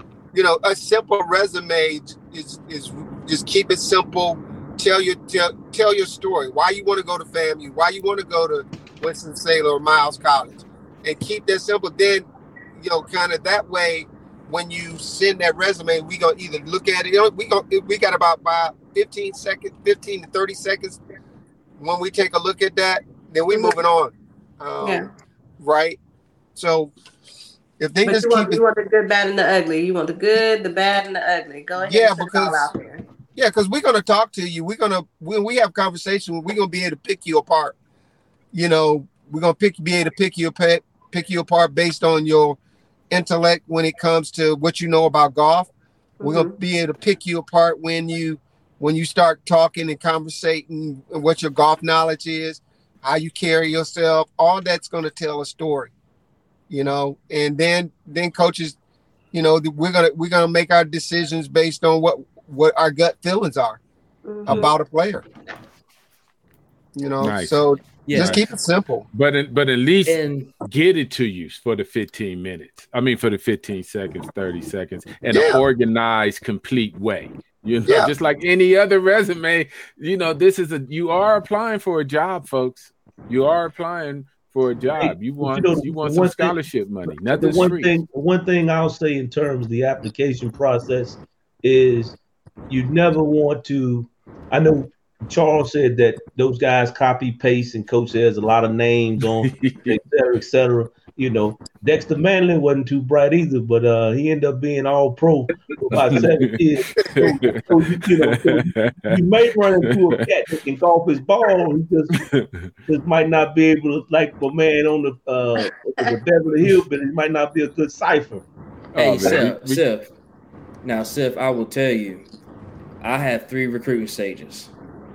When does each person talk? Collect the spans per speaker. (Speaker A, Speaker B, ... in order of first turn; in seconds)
Speaker A: 0.3-21.0, 21.8-25.1, 25.6-26.0, 26.5-26.9, 27.8-28.6, 31.8-32.7, 33.4-37.7, 38.5-42.6, 43.1-45.7, 46.2-55.9, 56.7-58.8, 59.3-63.8, 64.4-65.2, 66.9-69.0, 75.3-75.6, 77.9-78.1
Speaker B: 23.5-23.8, 24.8-25.1, 28.0-33.0, 46.2-46.6, 64.2-64.7
Speaker C: 67.2-67.6, 68.1-68.5, 69.1-87.9, 99.5-100.0, 105.9-109.2, 112.2-112.7, 118.9-119.8
Speaker D: 68.0-68.5, 70.0-70.5, 119.0-120.1, 120.8-122.2, 123.0-124.7
Speaker E: 85.0-86.6, 87.1-92.2, 92.7-112.2, 112.9-118.5